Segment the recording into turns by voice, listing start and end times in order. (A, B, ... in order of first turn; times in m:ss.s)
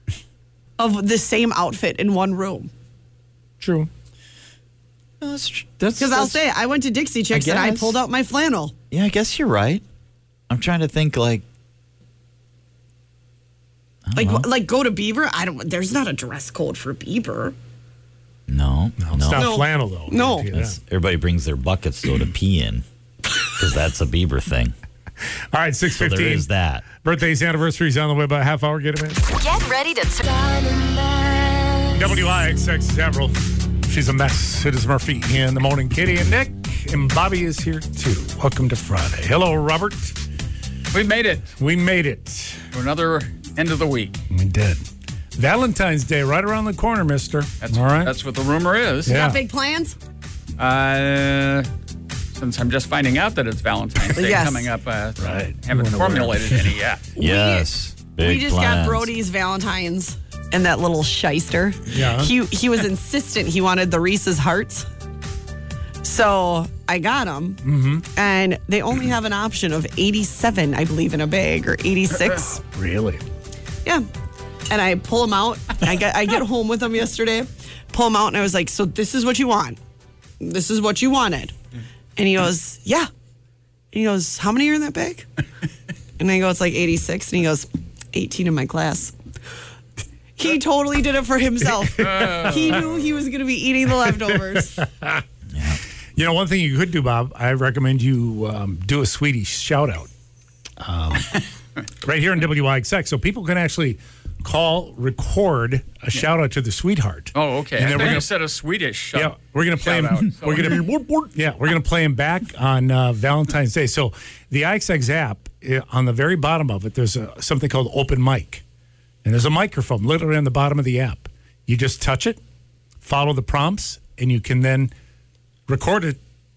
0:00.8-0:02.7 A
0:03.6-0:03.9 B
0:05.2-0:06.4 C
0:06.0-0:08.7 A
0:07.3-0:08.0 C
0:08.9-0:09.8 C
0:10.5-0:11.4 C
0:14.1-0:14.5 C
0:14.2-0:17.6 A
0:18.5-0:19.5 C
0:19.0-0:20.8 B
0:19.4-0:20.5 A
0:20.5-0:22.8 C
0:23.5-0:24.8 C
0:25.5-0:29.3 B
0:25.9-0:26.8 C
0:29.4-0:31.8 D
0:31.9-0:40.2 B
0:40.9-0:41.5 E
0:41.5-0:42.6 B
0:42.7-0:44.2 E
0:44.3-0:44.8 B
0:45.4-0:48.1 B
0:47.6-0:49.2 E
0:49.1-0:49.4 B
0:49.1-0:50.0 A
0:50.6-0:51.7 E
0:52.3-0:57.0 E
0:54.2-0:54.7 A
0:55.2-0:56.5 B
0:57.2-0:59.1 C
0:57.2-1:04.9 A
1:01.9-1:02.3 B
1:06.0-1:07.6 A
1:07.6-1:08.0 B
1:08.2-1:12.6 A
1:12.6-1:13.2 B
1:14.7-1:19.8 A
1:20.4-1:21.6 A
1:22.2-1:23.1 A
1:23.9-1:25.3 A
1:26.2-1:29.1 A
1:30.4-1:34.8 A
1:31.7-1:32.8 B
1:32.0-1:33.1 E
1:34.0-1:35.2 B
1:35.5-1:35.8 C
1:36.2-1:40.1 B
1:40.8-1:41.4 B
1:42.0-1:48.3 B
1:47.4-1:50.9 E
1:49.2-1:58.6 B
1:59.2-2:02.4 B
2:03.0-2:04.9 B
2:05.7-2:06.2 B